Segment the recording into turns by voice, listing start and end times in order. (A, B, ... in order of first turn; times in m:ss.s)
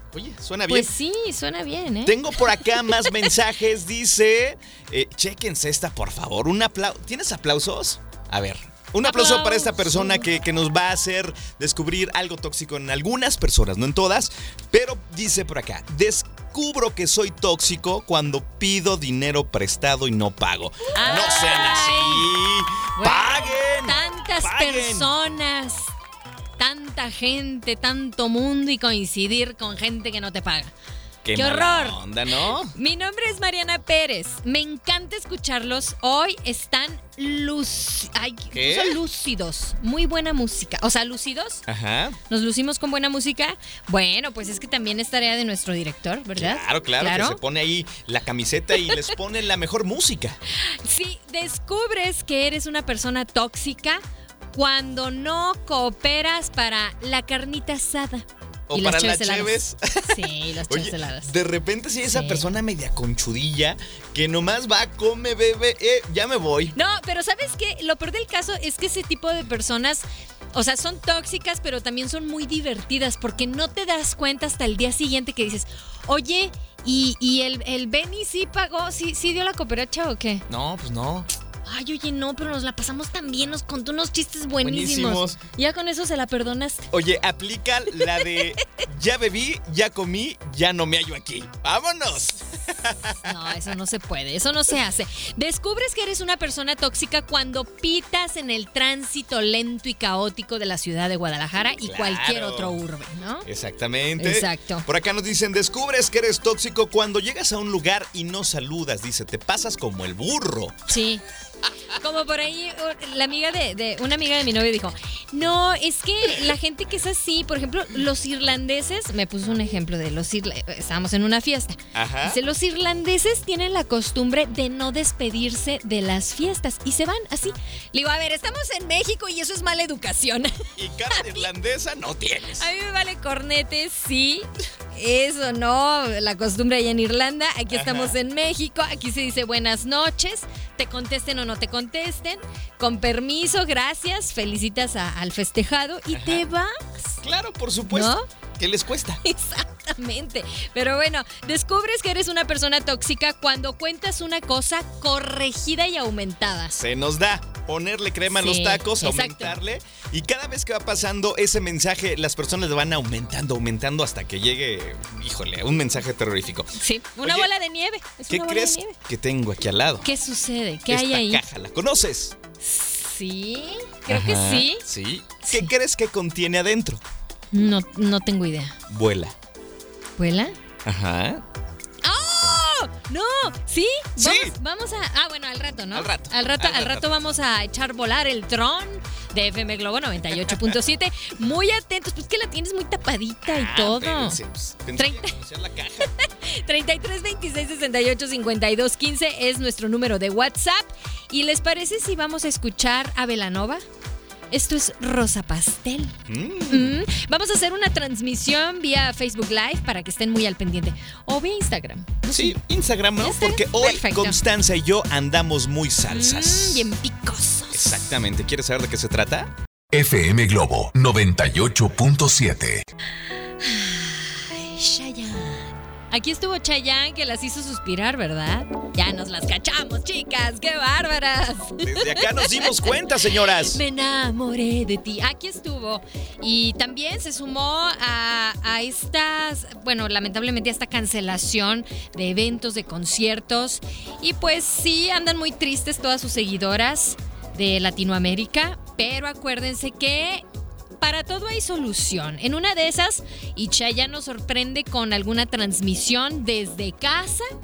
0:00.1-0:00.9 A
0:00.7-0:03.1 B
0:02.0-0:25.1 A
0:09.0-0:10.3 B
0:20.9-0:22.3 B
0:23.0-0:25.9 B
0:26.6-0:30.7 B
0:31.2-0:32.7 A
0:31.4-0:41.6 B
0:38.5-0:39.0 A
0:41.7-0:42.2 A
0:42.3-0:47.4 B
0:46.4-0:50.4 A
0:50.6-1:01.3 B
0:58.7-1:06.8 A
1:02.0-1:02.5 B
1:06.8-1:20.5 B
1:20.5-1:21.3 A
1:21.6-1:26.9 B
1:24.6-1:25.4 A
1:26.9-1:33.3 A
1:28.0-1:28.5 B
1:33.2-1:43.5 B
1:41.8-1:42.8 A
1:43.4-1:50.9 A
1:44.2-1:44.9 B
1:50.9-1:51.2 B
1:52.0-2:11.4 B
2:01.9-2:02.4 A
2:10.8-2:12.7 A
2:12.6-2:27.2 B
2:17.7-2:18.1 A
2:26.1-2:26.4 A
2:27.2-2:29.2 A
2:27.9-2:28.3 B
2:29.2-2:36.8 B
2:36.7-2:47.5 A
2:38.3-2:39.6 B
2:46.7-2:49.0 B
2:48.3-2:50.1 A
2:50.0-2:51.4 B
2:50.9-2:52.4 A
2:52.6-2:54.9 B
2:54.1-2:57.0 A
2:55.4-2:55.7 B
2:57.5-2:58.8 B
2:58.9-2:59.4 A
3:00.2-3:00.6 B
3:00.8-3:01.4 A
3:02.0-3:14.4 B
3:04.2-3:04.6 A
3:05.9-3:07.1 A
3:13.5-3:16.1 A
3:15.0-3:15.4 B
3:16.1-3:23.8 B
3:24.5-3:26.2 B
3:26.3-3:27.0 A
3:26.7-3:32.6 B
3:32.3-3:36.9 A
3:33.2-3:34.4 B
3:36.1-3:38.1 B
3:37.7-3:39.5 A
3:39.9-3:42.8 C
3:43.6-3:52.9 B
3:51.8-3:53.8 A
3:53.5-4:10.4 B
4:11.0-4:17.5 B